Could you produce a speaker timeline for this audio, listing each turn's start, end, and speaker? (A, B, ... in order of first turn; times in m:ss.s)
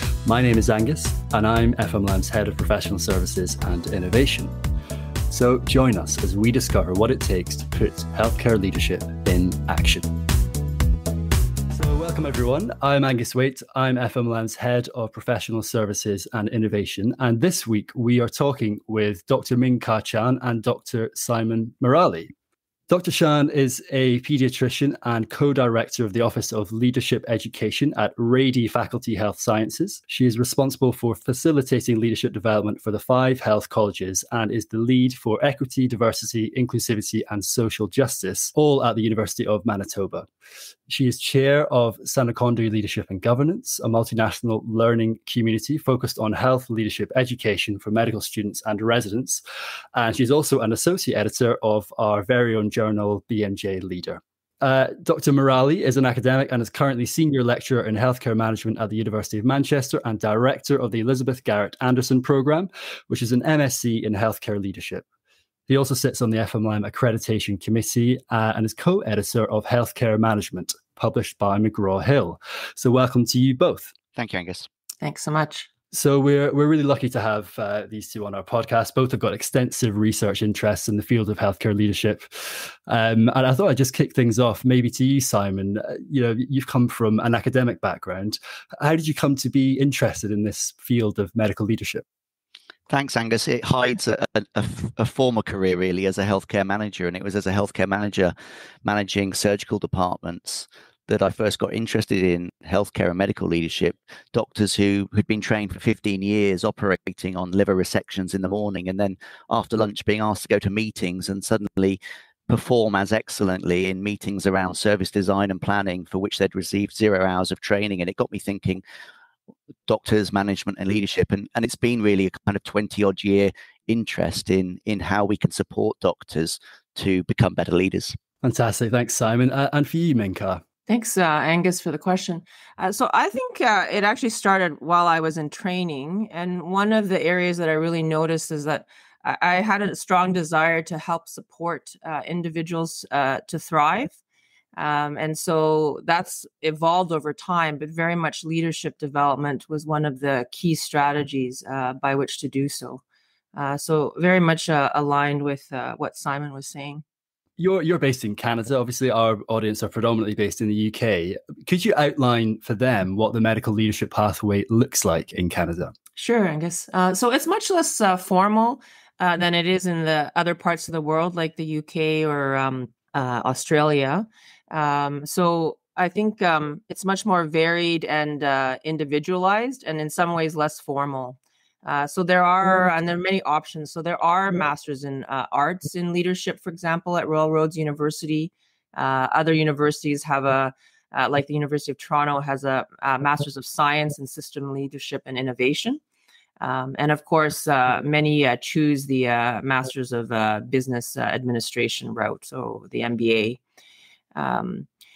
0:00.2-0:04.5 A
0:05.3-0:10.1 A
0:11.7-0:22.3 A
0:22.9-0:40.3 A
0:40.9-0:49.4 A
0:50.0-1:05.1 A
1:05.7-1:13.9 A
1:14.2-1:14.7 B
1:15.0-1:15.7 C
1:15.9-1:32.0 A
1:32.9-1:38.3 B
1:38.8-1:58.8 B
1:59.9-2:08.2 B
2:08.4-2:10.6 A
2:10.9-2:24.2 C
2:24.8-2:33.0 C
2:33.5-2:37.0 C
2:37.6-2:45.9 A
2:46.2-3:16.0 C
3:16.6-3:23.6 C
3:24.4-3:24.9 C